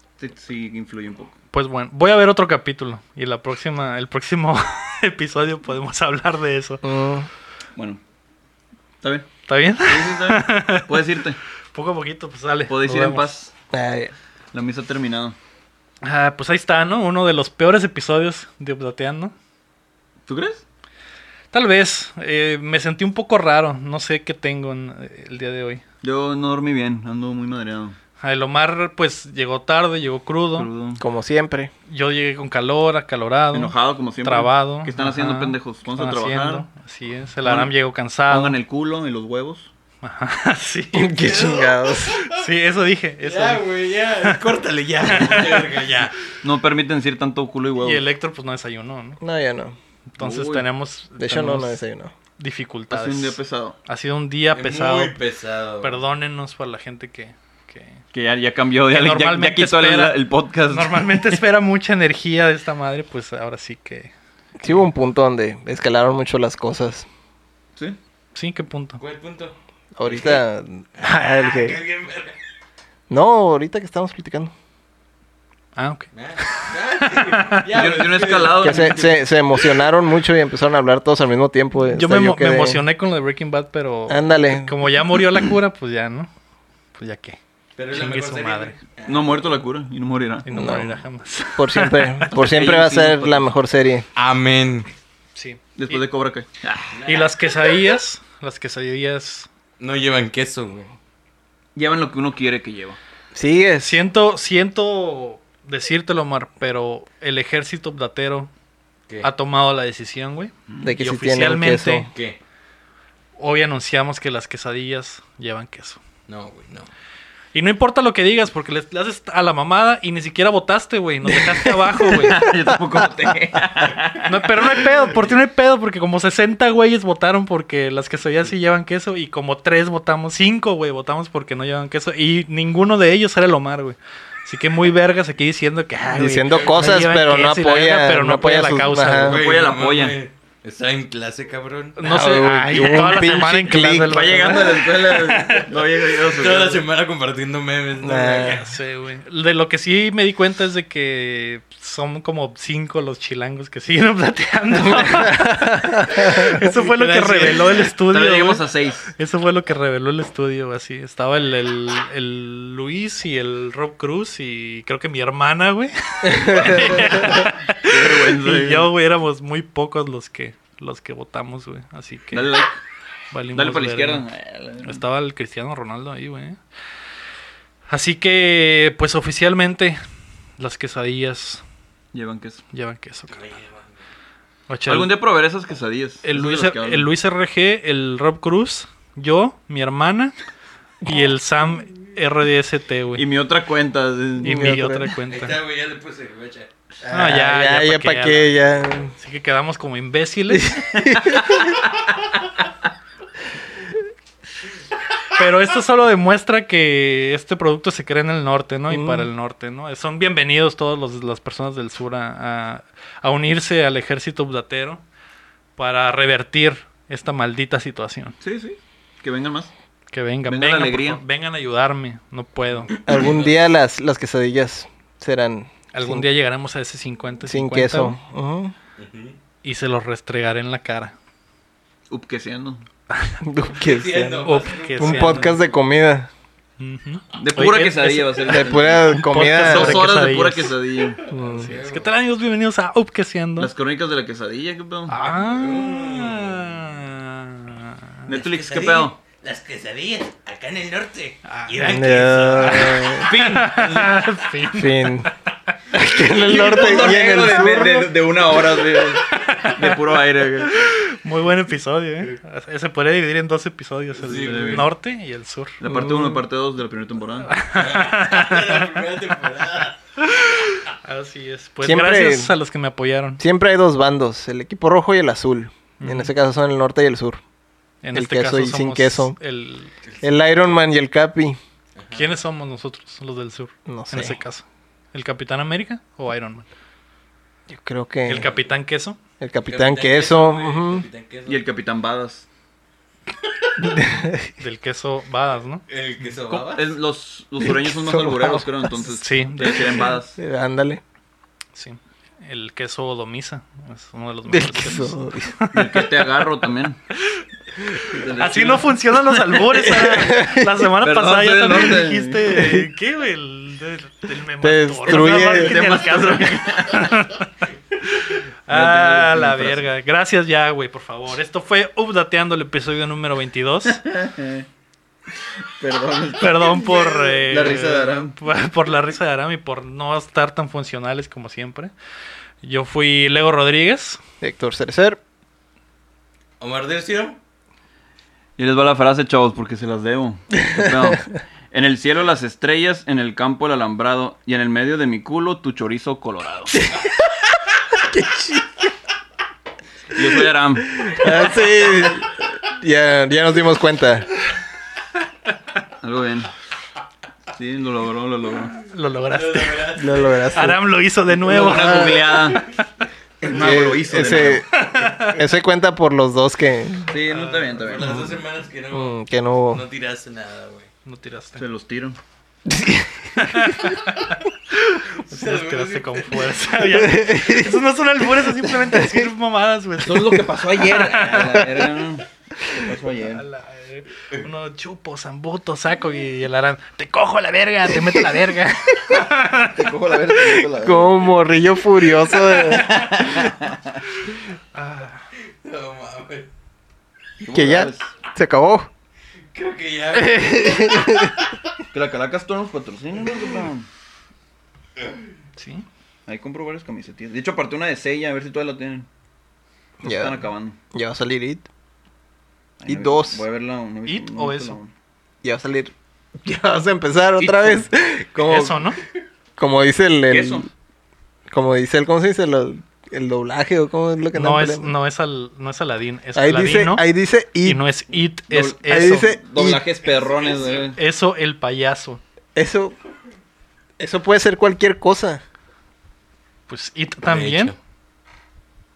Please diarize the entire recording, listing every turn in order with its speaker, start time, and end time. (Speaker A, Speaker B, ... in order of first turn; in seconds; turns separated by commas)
Speaker A: 0.2-1.3, Speaker B: 1.5-6.8, Speaker C: 6.8-7.3, Speaker A: 9.0-9.3, Speaker B: 9.5-11.0, Speaker A: 9.8-11.4, Speaker B: 11.7-13.3, Speaker A: 12.7-13.5, Speaker C: 13.7-14.1, Speaker A: 14.5-15.3, Speaker B: 16.0-19.3, Speaker A: 20.3-20.6, Speaker B: 21.5-25.8, Speaker A: 26.0-27.9, Speaker B: 28.2-30.7, Speaker A: 30.6-31.0, Speaker C: 31.0-31.7, Speaker B: 31.9-38.6, Speaker A: 33.5-36.7, Speaker A: 37.4-37.7, Speaker A: 38.3-39.7, Speaker B: 40.0-41.5, Speaker C: 40.9-42.2, Speaker D: 41.3-42.4, Speaker B: 42.1-43.7, Speaker D: 43.2-46.1, Speaker B: 44.2-44.5, Speaker B: 45.0-46.1, Speaker A: 46.4-48.0, Speaker B: 47.8-49.2, Speaker C: 49.2-49.8, Speaker B: 50.1-51.8, Speaker A: 50.2-50.6, Speaker C: 51.2-52.1, Speaker B: 52.4-55.1, Speaker A: 52.9-53.8, Speaker D: 54.5-56.0, Speaker B: 55.8-58.0, Speaker A: 58.1-61.4, Speaker B: 58.9-60.1, Speaker B: 60.7-64.1, Speaker C: 64.6-67.1, Speaker B: 68.3-69.0, Speaker D: 69.0-70.4, Speaker C: 70.0-71.8, Speaker D: 71.0-72.4, Speaker C: 73.1-74.5, Speaker B: 75.8-77.7, Speaker D: 76.1-79.0, Speaker A: 77.7-79.2, Speaker C: 78.6-82.8, Speaker B: 81.9-86.3, Speaker C: 84.1-84.8, Speaker B: 87.0-87.4, Speaker D: 87.8-89.5, Speaker B: 87.9-88.8, Speaker A: 89.0-90.5, Speaker B: 90.4-92.3, Speaker C: 90.5-91.0, Speaker C: 91.5-94.1, Speaker D: 92.3-93.4, Speaker A: 92.3-92.8, Speaker D: 94.1-94.9, Speaker B: 95.3-96.0, Speaker A: 95.8-97.0, Speaker D: 96.9-97.3, Speaker B: 97.0-99.5, Speaker D: 99.8-100.9, Speaker A: 101.8-103.0, Speaker C: 103.3-104.0, Speaker B: 103.8-108.5, Speaker B: 109.2-112.1, Speaker C: 110.8-112.1, Speaker D: 112.1-112.4, Speaker B: 113.4-116.0, Speaker D: 116.3-116.9, Speaker B: 117.5-122.4, Speaker C: 122.0-123.0, Speaker A: 122.0-124.8, Speaker B: 124.2-139.4, Speaker C: 136.1-139.4, Speaker D: 136.4-137.0, Speaker A: 139.2-140.2, Speaker D: 139.2-142.0, Speaker B: 141.9-145.7, Speaker C: 142.0-144.6, Speaker A: 143.7-146.8, Speaker D: 146.2-148.7, Speaker C: 148.0-148.6, Speaker B: 148.4-158.6, Speaker C: 154.8-156.7, Speaker D: 156.7-157.9, Speaker A: 158.1-159.1, Speaker B: 159.2-172.5, Speaker C: 166.2-167.4, Speaker A: 166.6-167.2, Speaker A: 167.8-168.9, Speaker A: 172.3-172.8, Speaker B: 173.3-174.2, Speaker A: 173.5-175.0, Speaker B: 174.8-176.6, Speaker B: 177.9-180.0, Speaker B: 180.6-181.6, Speaker A: 182.1-182.6, Speaker B: 182.7-183.4, Speaker D: 183.3-184.0, Speaker B: 184.7-185.1, Speaker A: 184.9-187.1, Speaker B: 186.2-190.3, Speaker B: 191.0-193.2, Speaker A: 193.2-194.9, Speaker C: 194.4-195.1, Speaker B: 194.4-195.6, Speaker D: 195.3-196.7, Speaker C: 197.0-199.1, Speaker B: 197.1-198.6, Speaker B: 199.2-200.8, Speaker C: 200.5-201.7, Speaker A: 201.3-201.8, Speaker B: 205.3-215.0, Speaker C: 208.9-209.3, Speaker B: 215.8-218.3, Speaker A: 218.4-219.7, Speaker B: 220.1-222.9, Speaker A: 220.4-221.2, Speaker C: 223.0-226.3, Speaker D: 223.1-223.6, Speaker B: 225.9-228.2, Speaker C: 227.4-228.7, Speaker D: 229.0-229.4, Speaker B: 229.6-231.1, Speaker A: 232.1-232.8, Speaker B: 233.1-233.4, Speaker C: 233.4-236.3, Speaker D: 233.8-235.8, Speaker B: 234.4-235.6, Speaker B: 236.8-238.6, Speaker A: 237.3-241.2, Speaker C: 238.5-240.1, Speaker B: 239.1-240.7, Speaker D: 241.2-242.1, Speaker C: 241.3-241.7, Speaker B: 241.6-243.7, Speaker A: 243.6-245.2, Speaker B: 245.1-248.2, Speaker D: 245.2-246.7, Speaker A: 248.2-249.2, Speaker D: 248.3-253.3, Speaker B: 251.4-255.7, Speaker C: 251.8-253.3, Speaker A: 253.1-254.2, Speaker C: 254.7-255.3, Speaker C: 255.9-258.1, Speaker A: 256.3-260.7, Speaker B: 259.2-260.0, Speaker B: 260.6-265.8, Speaker D: 264.2-264.9, Speaker A: 264.3-264.9, Speaker A: 265.8-267.6, Speaker C: 265.8-266.4, Speaker B: 267.5-268.9, Speaker D: 267.6-270.0, Speaker B: 270.2-273.4, Speaker C: 271.8-272.5, Speaker C: 273.4-277.4, Speaker B: 276.0-276.3, Speaker B: 278.0-279.9, Speaker C: 278.1-279.4, Speaker D: 280.0-280.3, Speaker C: 280.2-281.6, Speaker D: 281.9-282.3, Speaker B: 282.1-286.6, Speaker C: 283.9-284.4, Speaker C: 287.7-288.5, Speaker B: 288.2-289.2, Speaker D: 288.3-288.6, Speaker C: 289.4-291.1, Speaker D: 289.6-291.6, Speaker A: 291.4-292.5, Speaker C: 293.8-294.5, Speaker B: 294.6-295.8, Speaker D: 295.9-296.9, Speaker A: 296.5-300.4, Speaker C: 297.6-298.6, Speaker B: 299.0-300.1, Speaker C: 299.7-301.0, Speaker B: 301.7-306.0, Speaker C: 304.5-305.9, Speaker A: 305.7-307.0, Speaker A: 308.1-309.4, Speaker B: 308.3-324.0, Speaker C: 309.8-310.7, Speaker A: 311.0-312.6, Speaker C: 312.6-312.9, Speaker C: 314.6-315.8, Speaker A: 315.1-317.1, Speaker A: 318.7-319.8, Speaker A: 323.9-324.6, Speaker A: 325.4-328.4, Speaker B: 326.4-331.9, Speaker B: 332.6-334.2, Speaker C: 334.4-335.2, Speaker D: 336.6-337.4, Speaker A: 338.6-346.9, Speaker C: 346.7-347.1, Speaker C: 347.9-348.7, Speaker A: 350.1-351.3, Speaker C: 351.0-354.3, Speaker A: 356.0-356.5, Speaker A: 357.5-358.8, Speaker B: 358.9-359.9, Speaker D: 359.3-360.6, Speaker C: 360.0-360.8, Speaker B: 360.5-363.0, Speaker A: 361.4-362.6, Speaker C: 361.6-362.2, Speaker A: 363.4-364.6, Speaker C: 363.5-367.1, Speaker B: 364.7-365.4, Speaker A: 367.1-368.2, Speaker B: 367.3-367.6, Speaker D: 367.7-370.9, Speaker C: 368.0-368.4, Speaker C: 368.9-369.8, Speaker B: 371.1-371.6, Speaker A: 371.6-372.2, Speaker C: 372.6-373.6, Speaker B: 373.4-381.6, Speaker D: 375.3-376.5, Speaker C: 376.9-377.8, Speaker C: 378.4-379.3, Speaker A: 380.0-383.4, Speaker C: 381.4-381.7, Speaker B: 383.2-389.9, Speaker A: 389.6-391.3, Speaker C: 390.7-393.1, Speaker B: 392.6-393.0, Speaker A: 392.7-394.0, Speaker B: 394.3-395.3, Speaker D: 395.6-396.5, Speaker A: 397.4-398.1, Speaker C: 397.5-398.9, Speaker D: 399.5-401.6, Speaker C: 400.1-401.4, Speaker A: 401.9-403.9, Speaker B: 405.6-405.9, Speaker A: 406.3-409.1, Speaker A: 410.0-410.8, Speaker C: 410.0-411.6, Speaker A: 412.8-414.9, Speaker C: 412.9-413.4, Speaker B: 414.1-414.8, Speaker C: 415.4-418.8, Speaker A: 417.4-417.8, Speaker B: 418.4-419.0, Speaker C: 419.6-420.7, Speaker A: 420.3-420.7, Speaker C: 421.5-424.9, Speaker B: 424.3-427.1, Speaker C: 426.3-427.8, Speaker B: 427.6-429.3, Speaker A: 428.5-431.0, Speaker C: 428.9-429.8, Speaker B: 430.9-432.2, Speaker C: 432.5-432.9, Speaker C: 434.0-435.4, Speaker B: 436.7-437.7, Speaker D: 437.2-437.7